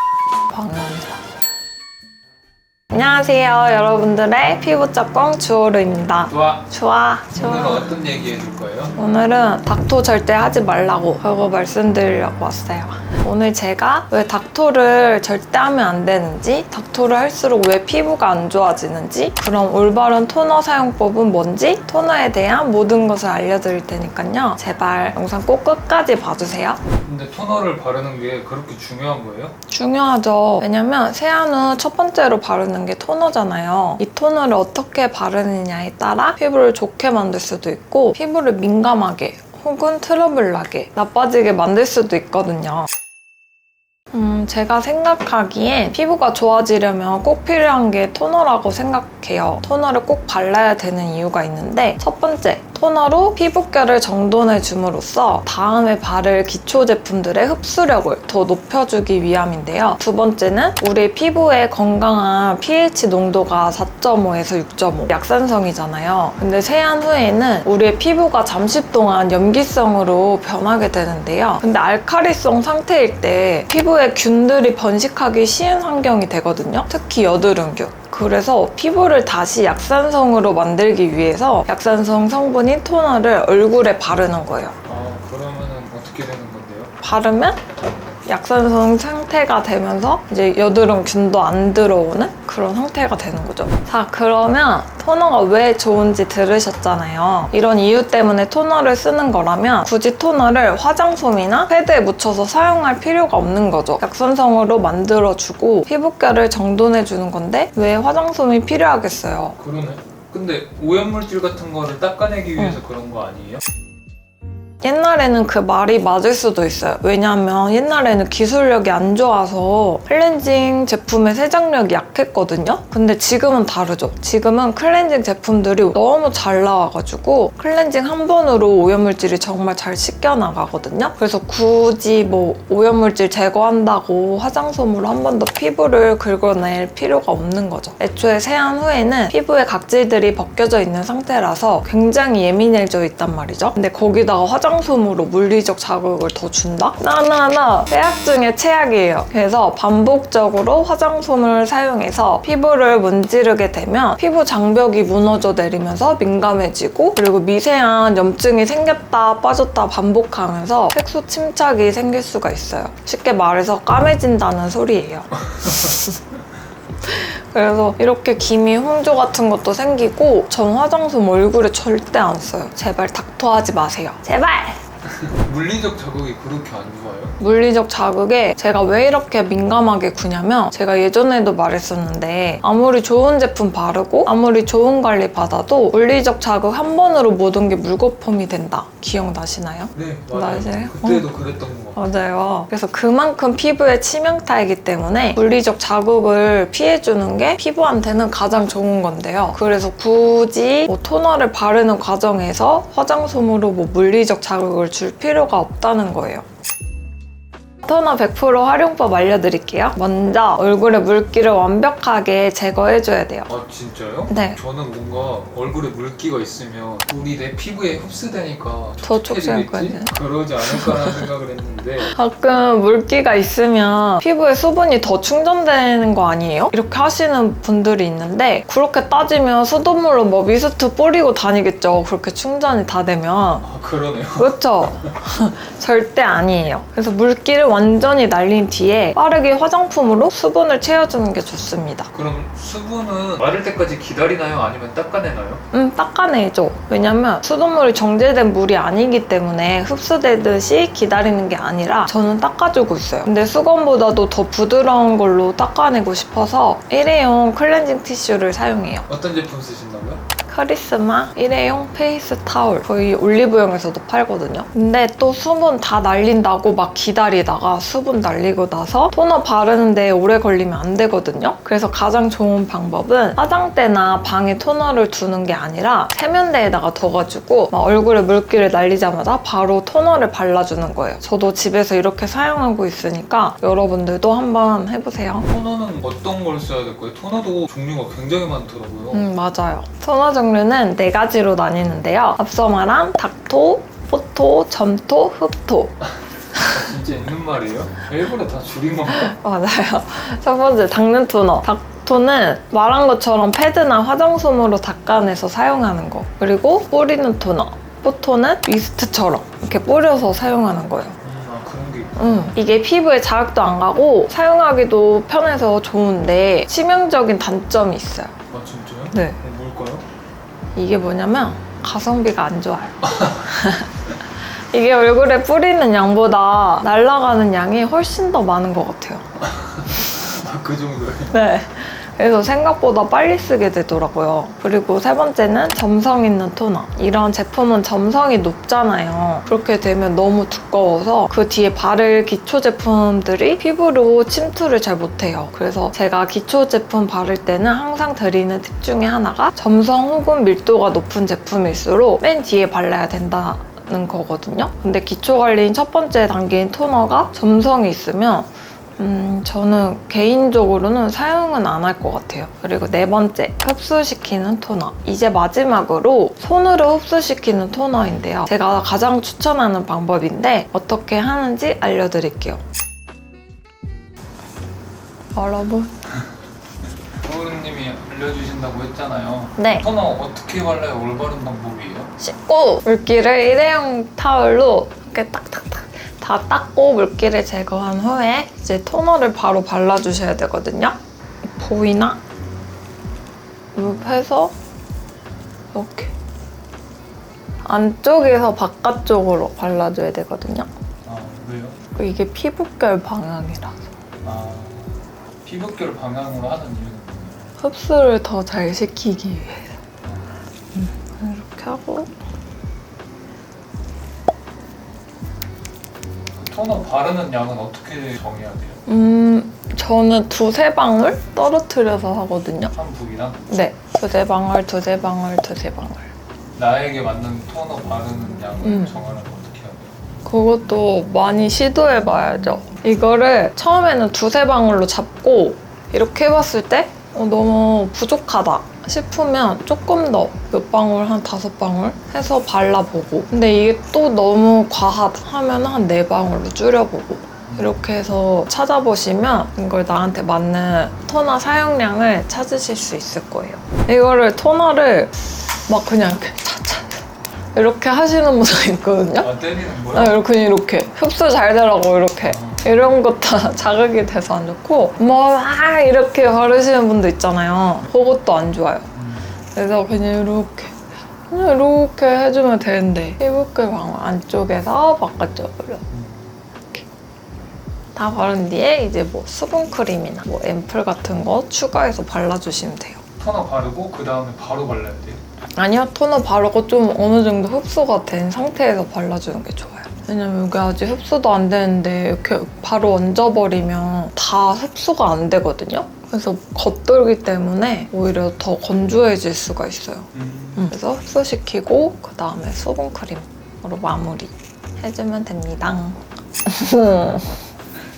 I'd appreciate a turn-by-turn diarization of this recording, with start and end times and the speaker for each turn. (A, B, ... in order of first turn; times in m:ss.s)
0:00.5-0:01.2 A
0:02.9-0:07.9 A
0:06.3-0:06.7 B
0:07.4-0:09.0 B
0:09.0-0:26.8 A
0:27.0-0:29.6 B
0:29.7-0:42.9 A
0:44.1-1:24.8 A
1:24.9-1:26.9 B
1:27.0-1:27.6 A
1:28.3-1:49.6 A
1:49.6-1:53.6 B
1:54.8-2:46.2 A
2:47.0-2:54.8 A
2:55.1-2:57.4 B
2:57.4-3:11.3 A
3:10.0-3:12.0 B
3:12.0-3:26.4 A
3:27.8-3:33.5 A
3:33.5-3:42.1 B
3:34.3-3:34.6 A
3:39.0-3:41.2 A
3:42.1-3:53.6 A
3:53.6-3:54.6 B
3:54.4-4:02.1 A
4:02.1-4:05.6 B
4:05.7-4:19.1 A
4:19.1-4:20.2 B
4:20.4-4:45.5 A
4:45.5-4:49.3 B
4:49.1-4:56.0 A
4:56.6-4:59.3 B
4:59.1-5:11.2 A
5:11.2-5:12.6 B
5:12.2-5:18.3 A
5:18.5-5:20.1 B
5:19.1-5:19.4 A
5:20.8-5:24.2 A
5:23.1-5:23.5 B
5:24.7-5:29.3 A
5:29.4-5:31.4 B
5:31.3-6:12.6 A
6:15.4-6:15.9 A
6:17.2-6:22.1 B
6:19.6-6:19.8 A
6:22.2-6:32.2 A
6:33.7-6:34.5 A
6:35.7-6:36.1 A
6:37.6-6:40.7 A
6:41.0-6:41.8 B
6:42.0-6:43.9 A
6:44.2-6:47.5 B
6:47.6-6:49.8 A
6:50.0-6:50.3 B
6:50.8-6:52.1 A
6:56.4-6:58.8 B
6:58.9-7:02.7 A
7:02.7-7:03.4 B
7:03.5-7:06.1 A
7:06.6-7:10.0 B
7:08.6-7:09.0 A
7:10.3-7:37.0 A
7:27.5-7:27.8 B
7:37.6-7:39.3 A
7:39.2-7:40.2 B
7:39.9-7:48.9 A
7:42.2-7:42.8 B
7:49.0-7:49.3 B
7:49.5-7:50.8 A
7:51.3-7:55.9 A
7:55.9-7:56.4 B
7:58.0-8:03.0 A
8:03.2-8:05.2 B
8:05.6-8:27.4 A
8:20.1-8:20.7 B